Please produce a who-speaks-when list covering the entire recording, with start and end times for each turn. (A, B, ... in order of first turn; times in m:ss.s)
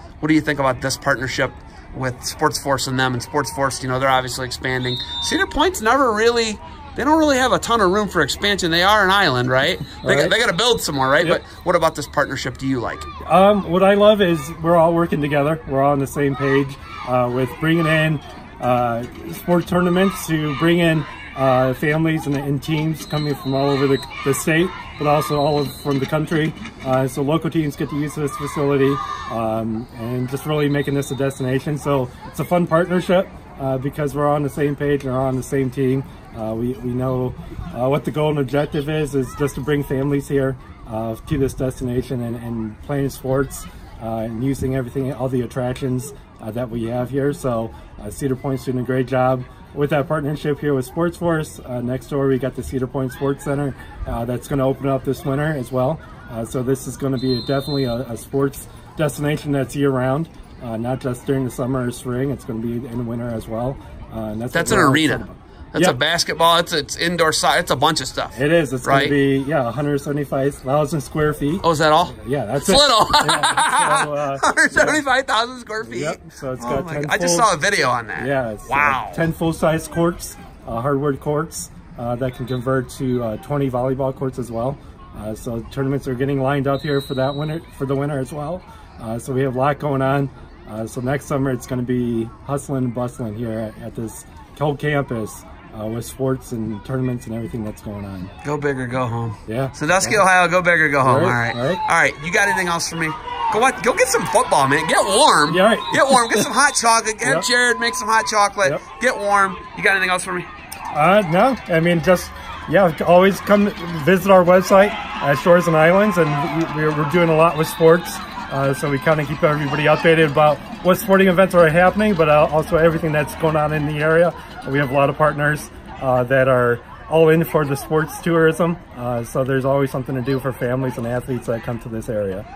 0:00.2-0:13.1 A
0:10.0-0:10.4 B
0:13.2-1:06.0 B
1:04.5-1:09.2 A
1:08.3-1:15.0 B
1:11.6-1:19.2 A
1:15.8-1:17.5 B
1:18.2-1:38.3 B
1:38.4-1:50.5 A
1:39.5-1:40.2 B
1:41.0-1:41.8 B
1:45.5-1:46.5 B
1:47.2-1:47.5 B
1:50.9-2:12.4 B